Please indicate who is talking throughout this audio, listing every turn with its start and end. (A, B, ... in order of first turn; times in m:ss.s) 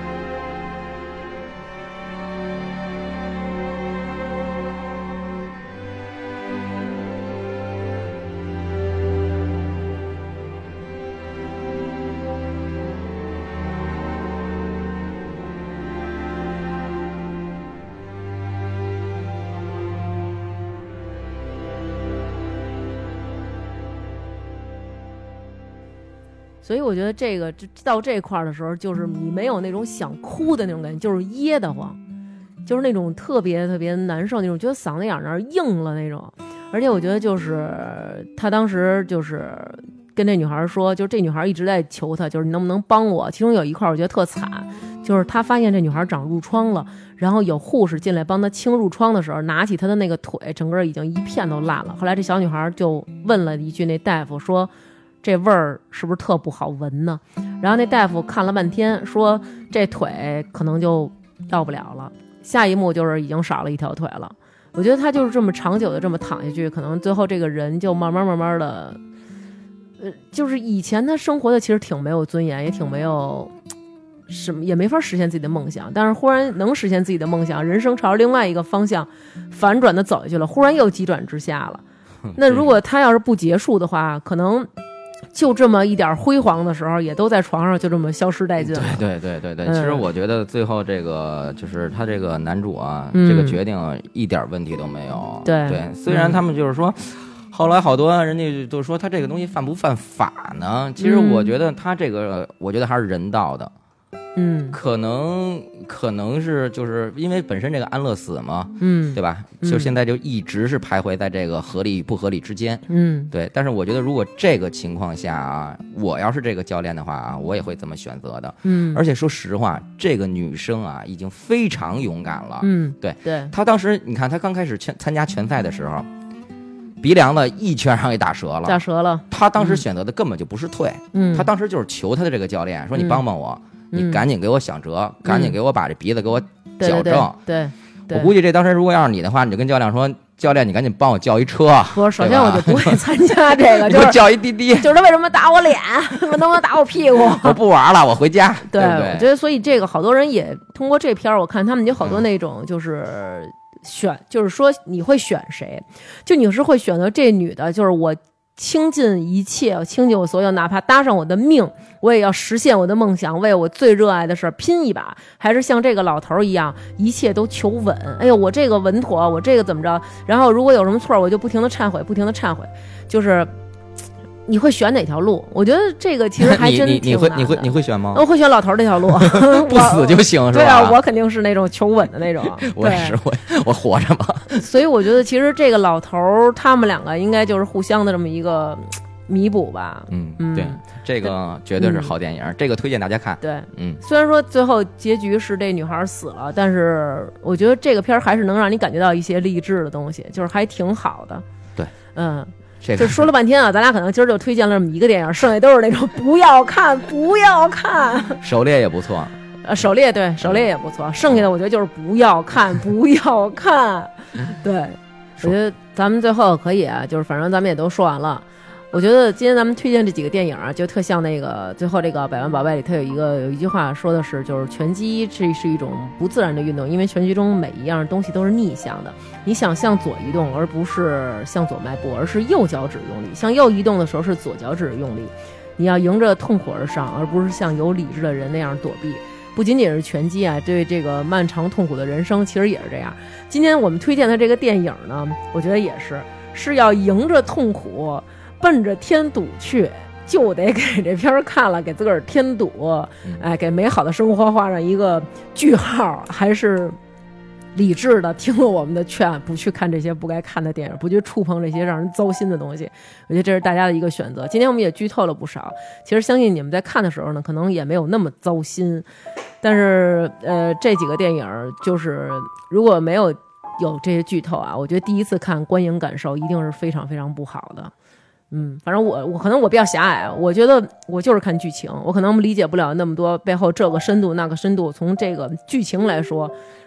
0:26.6-0:32.0 A
0:32.6-0:54.7 A
0:55.2-1:09.0 A
1:10.0-1:13.5 A
1:14.3-1:21.8 A
1:22.3-1:22.7 B
1:22.3-1:24.7 A
1:25.3-1:29.0 A
1:28.6-1:43.7 B
1:29.6-1:30.0 A
1:33.1-1:33.6 A
1:35.4-1:36.4 A
1:41.0-1:41.5 A
1:44.4-1:44.8 A
1:44.7-2:06.1 B
1:48.8-1:49.9 A
1:52.9-1:53.3 A
1:58.6-1:59.0 A
2:02.6-2:03.5 A
2:07.0-2:17.4 B
2:08.6-2:09.8 A
2:11.1-2:11.5 A
2:12.9-2:13.2 A
2:13.9-2:14.2 A
2:15.2-2:15.6 A
2:16.8-2:18.3 A
2:18.1-2:24.9 B
2:21.9-2:27.6 A
2:27.2-2:29.3 B
2:28.6-2:53.5 A
2:54.5-3:03.2 A
2:56.4-2:58.2 B
2:59.1-3:01.0 B
3:02.3-3:04.6 B
3:04.5-3:12.1 A
3:10.1-3:14.0 B
3:13.4-3:21.4 A
3:22.1-3:28.4 A
3:22.8-3:23.3 B
3:28.4-3:29.4 B
3:29.6-4:17.0 A
3:30.4-3:30.7 B
4:17.7-4:29.0 A
4:29.6-4:37.9 A
4:38.5-4:46.5 A